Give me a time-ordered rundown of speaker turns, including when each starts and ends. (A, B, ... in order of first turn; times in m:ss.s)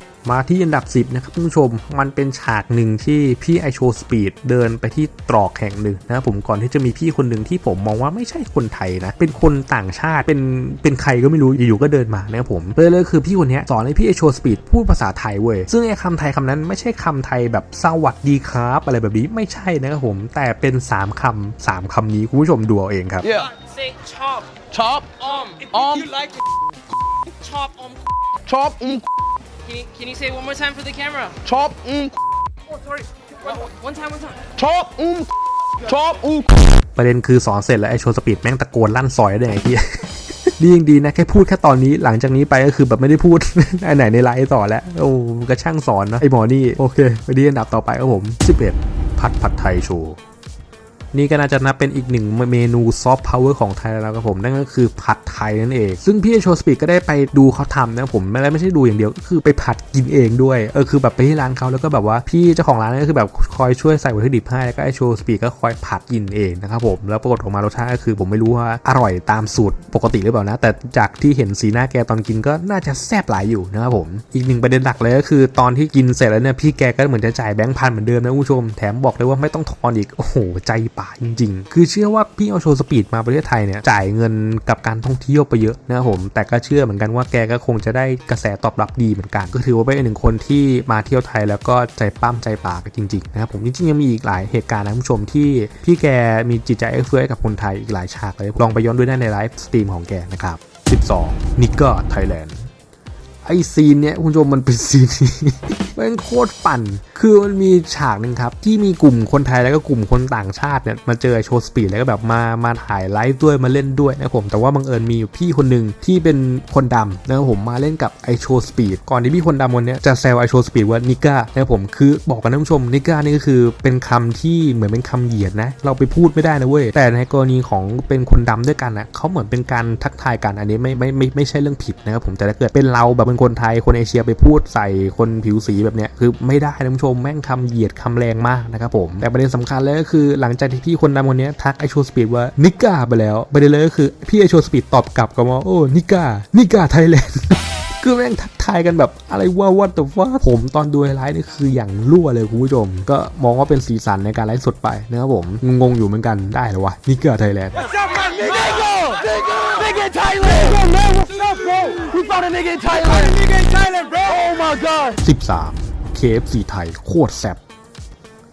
0:00.2-0:23.2 A
0:23.2-0:23.5 B
0:23.4-0:24.6 C
0:24.7-0:25.2 B
0:25.2-0:26.1 C
0:25.7-0:26.1 B
0:27.4-0:28.0 C
0:28.5-0:29.1 B
0:29.6-0:31.4 C
0:31.4-0:32.2 B
0:33.4-0:34.4 C
0:34.6-0:35.3 B
0:35.8-0:36.5 B
0:37.0-0:50.2 A
0:51.1-1:42.7 A
1:43.4-2:37.8 A
2:37.8-2:45.2 B
2:45.2-2:47.6 A